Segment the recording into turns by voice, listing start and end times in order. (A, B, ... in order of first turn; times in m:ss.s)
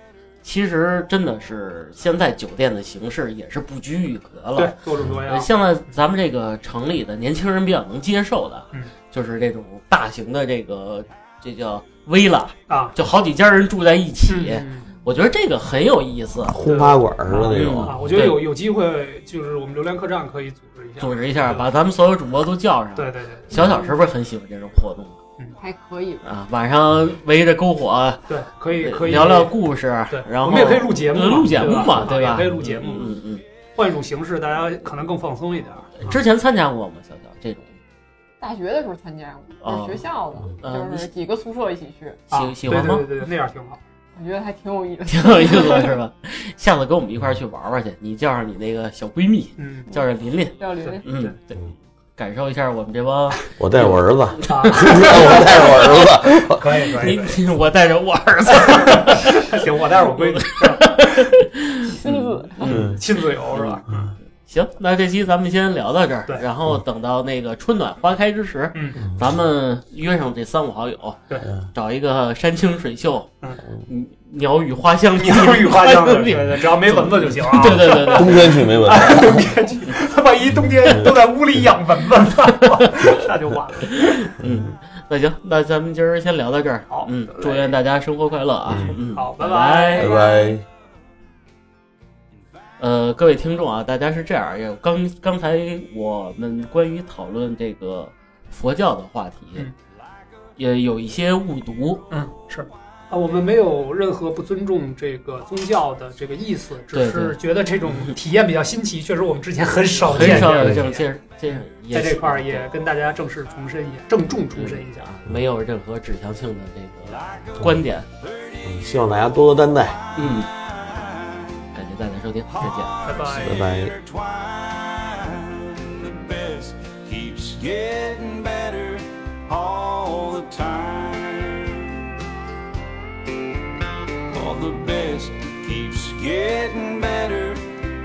0:00.4-0:04.8 A
0:04.6-0:05.5 B
0:05.3-0:16.6 A
0:12.7-0:12.9 B
0:14.3-0:14.9 B
0:16.5-0:18.1 C
0:16.6-0:21.6 B
0:17.4-0:18.4 A
0:21.0-0:25.2 A
0:23.0-0:23.6 B
0:23.5-0:24.0 D
0:25.6-0:26.2 D
0:26.2-0:33.4 A
0:28.3-0:29.5 B
0:30.1-0:33.1 B
0:33.8-0:36.2 B
0:36.0-0:37.7 A
0:38.4-0:42.2 D
0:39.6-0:40.0 A
0:40.6-0:41.1 A
0:42.3-0:43.1 A
0:42.3-0:43.8 B
0:44.2-0:46.0 D
0:45.1-0:51.6 A
0:49.6-0:49.9 B
0:50.6-0:51.1 D
0:52.2-0:56.1 A
0:53.6-0:56.6 C
0:54.4-0:55.7 B
0:56.6-0:57.4 B
0:57.0-0:59.6 A
0:58.6-1:01.3 B
1:00.1-1:03.8 A
1:01.9-1:02.9 D
1:02.6-1:04.1 B
1:02.6-1:03.0 C
1:04.4-1:13.3 A
1:08.7-1:09.0 B
1:13.8-1:18.6 A
1:15.2-1:24.2 B
1:17.8-1:19.5 C
1:20.9-1:21.1 C
1:23.9-1:30.2 A
1:26.9-1:27.6 B
1:28.7-1:29.0 C
1:29.1-1:30.2 B
1:30.0-1:30.6 C
1:30.0-1:30.6 D
1:32.8-1:39.7 A
1:40.6-1:42.0 A
1:42.1-1:55.1 B
1:46.9-1:47.4 A
1:50.1-1:52.7 A
1:50.1-1:50.8 C
1:54.6-1:58.1 A
1:57.1-1:59.0 E
1:58.6-2:00.0 C
2:00.2-2:00.5 A
2:00.2-2:01.8 E
2:01.7-2:02.9 A
2:02.6-2:12.0 E
2:02.6-2:03.6 B
2:03.4-2:03.9 C
2:14.3-2:17.7 E